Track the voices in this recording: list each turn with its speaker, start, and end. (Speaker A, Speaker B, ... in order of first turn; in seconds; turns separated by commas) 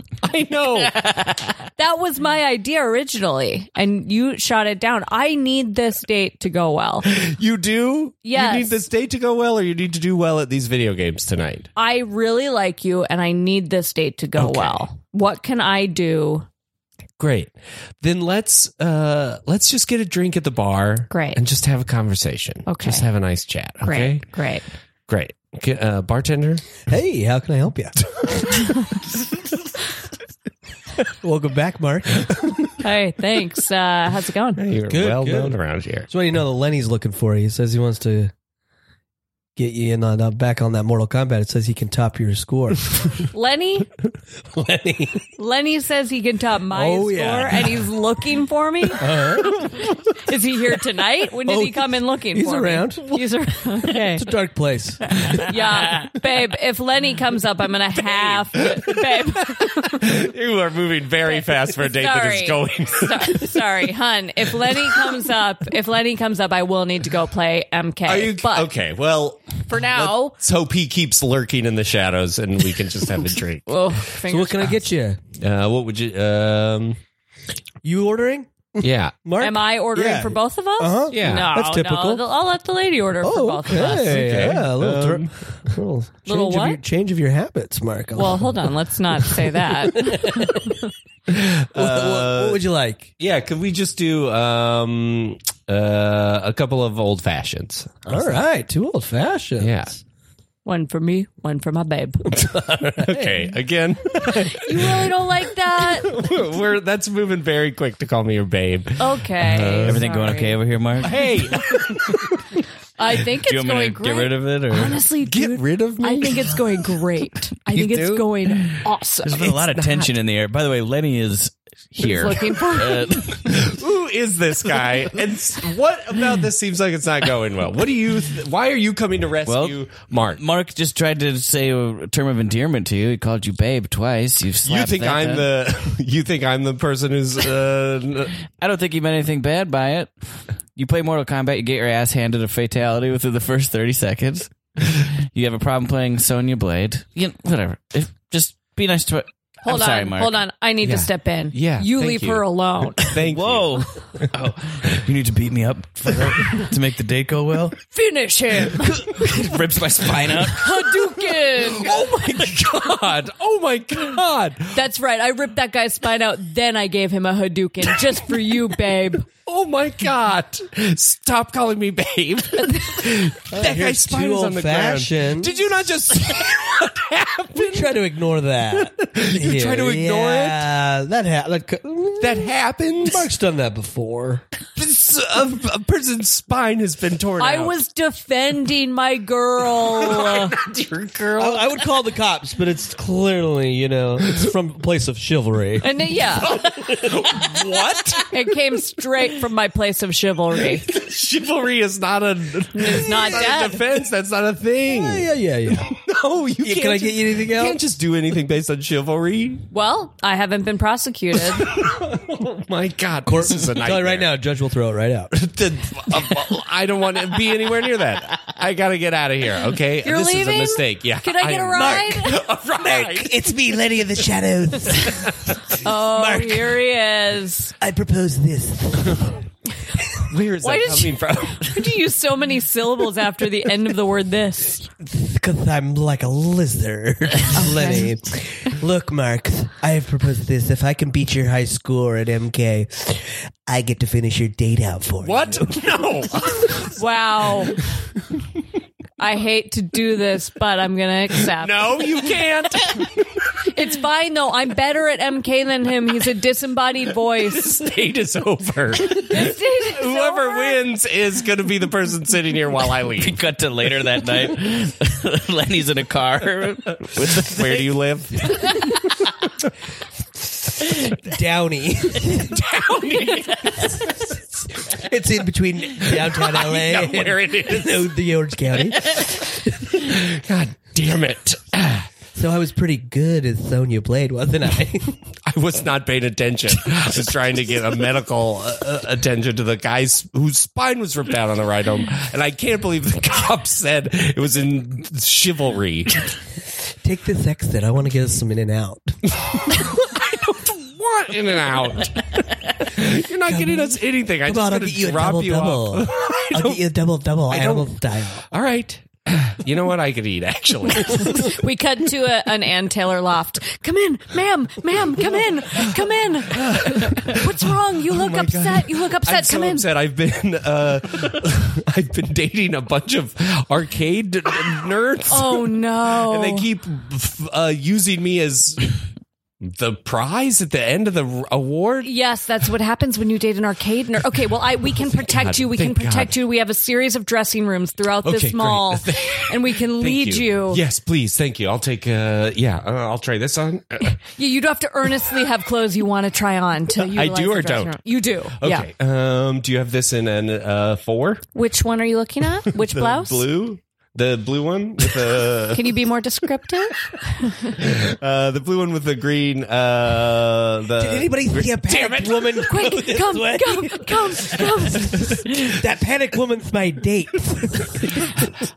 Speaker A: 0.2-1.0, Speaker B: 0.9-1.5, Speaker C: 1.8-7.1, Speaker A: 7.1-11.7, Speaker C: 8.2-8.8, Speaker C: 11.8-16.4, Speaker A: 14.4-14.8, Speaker A: 17.2-24.4, Speaker C: 21.1-21.4, Speaker C: 22.6-23.1, Speaker C: 23.8-24.6, Speaker A: 25.1-26.7, Speaker D: 26.8-28.4, Speaker D: 31.0-32.7, Speaker C: 32.8-34.6, Speaker A: 34.6-36.1, Speaker D: 34.9-35.6, Speaker D: 36.1-38.3, Speaker D: 39.5-43.3, Speaker C: 43.3-43.9, Speaker D: 44.5-45.3, Speaker C: 45.4-54.3, Speaker D: 46.7-47.7, Speaker D: 48.9-49.9, Speaker D: 51.4-53.3, Speaker D: 53.9-55.5, Speaker C: 55.0-60.2, Speaker A: 58.1-63.6, Speaker C: 61.3-68.7, Speaker A: 64.6-65.0, Speaker A: 68.0-73.7, Speaker C: 69.7-70.4, Speaker C: 73.7-74.9, Speaker D: 74.2-75.2, Speaker A: 75.4-77.0, Speaker D: 77.8-82.2, Speaker A: 78.8-79.1, Speaker C: 79.4-84.3, Speaker A: 81.1-81.6, Speaker D: 83.2-90.7, Speaker A: 83.9-85.7, Speaker C: 86.3-86.8, Speaker C: 88.1-90.8, Speaker D: 91.3-93.1, Speaker A: 91.7-92.6, Speaker A: 93.2-98.4, Speaker D: 98.0-100.0, Speaker A: 99.6-99.9, Speaker C: 100.6-102.3, Speaker D: 102.3-103.5, Speaker A: 102.9-105.1, Speaker C: 104.5-106.1, Speaker A: 105.8-110.1, Speaker C: 109.0-110.6, Speaker B: 109.8-111.3, Speaker A: 111.0-112.5, Speaker C: 113.0-119.5, Speaker B: 113.4-115.0, Speaker A: 115.2-116.6, Speaker A: 117.7-118.2, Speaker B: 119.2-123.7, Speaker A: 119.4-120.1, Speaker C: 122.0-123.1, Speaker A: 123.3-130.4, Speaker B: 129.4-135.5, Speaker A: 134.6-138.4, Speaker B: 138.5-140.2, Speaker B: 140.7-150.4, Speaker C: 149.6-153.1, Speaker A: 150.8-152.4, Speaker A: 153.0-154.2, Speaker B: 153.1-157.8, Speaker C: 157.9-159.3, Speaker B: 158.7-160.7, Speaker C: 160.5-162.5, Speaker A: 161.5-164.8, Speaker C: 164.7-169.3, Speaker A: 169.4-178.0, Speaker C: 172.6-173.1, Speaker D: 173.5-175.6, Speaker D: 177.6-184.4, Speaker A: 178.8-180.6, Speaker A: 182.2-183.3, Speaker A: 184.8-187.8, Speaker C: 187.4-190.6, Speaker A: 189.9-191.7, Speaker D: 191.4-196.1, Speaker C: 195.8-196.6, Speaker A: 196.4-198.3, Speaker C: 198.3-200.9, Speaker A: 200.8-205.3, Speaker C: 202.7-203.8, Speaker D: 204.9-206.0, Speaker A: 205.8-209.6, Speaker D: 206.6-207.8, Speaker C: 209.7-211.7, Speaker A: 211.5-214.3, Speaker D: 213.2-216.3, Speaker A: 215.4-223.4, Speaker C: 220.0-222.4, Speaker D: 221.7-226.8, Speaker A: 225.0-225.7, Speaker C: 225.8-227.7, Speaker D: 227.8-229.4, Speaker A: 230.2-232.0, Speaker C: 230.6-234.9, Speaker D: 235.0-245.9, Speaker C: 237.5-238.1, Speaker A: 245.2-246.9, Speaker C: 246.9-247.8, Speaker C: 249.2-252.2, Speaker A: 251.6-253.4, Speaker C: 253.6-257.8, Speaker A: 257.6-263.4, Speaker C: 259.2-260.8, Speaker B: 263.2-268.0, Speaker A: 267.4-268.8, Speaker B: 268.5-268.9, Speaker D: 271.1-272.6, Speaker A: 272.3-274.4, Speaker D: 274.8-279.5, Speaker A: 276.1-278.1, Speaker A: 279.2-282.1, Speaker D: 282.3-285.3, Speaker A: 285.4-296.3, Speaker D: 297.0-299.2, Speaker A: 299.5-306.8, Speaker D: 303.4-308.4, Speaker A: 307.5-311.6, Speaker C: 311.2-319.9, Speaker A: 316.6-328.9, Speaker C: 325.3-326.7, Speaker A: 329.6-332.1, Speaker C: 332.0-340.8, Speaker A: 335.2-336.3, Speaker A: 338.2-344.2, Speaker C: 344.2-348.9, Speaker A: 347.0-351.4, Speaker C: 351.5-353.5, Speaker A: 352.7-356.0, Speaker C: 355.7-357.7, Speaker A: 357.7-362.8, Speaker D: 360.9-368.4, Speaker C: 362.6-365.5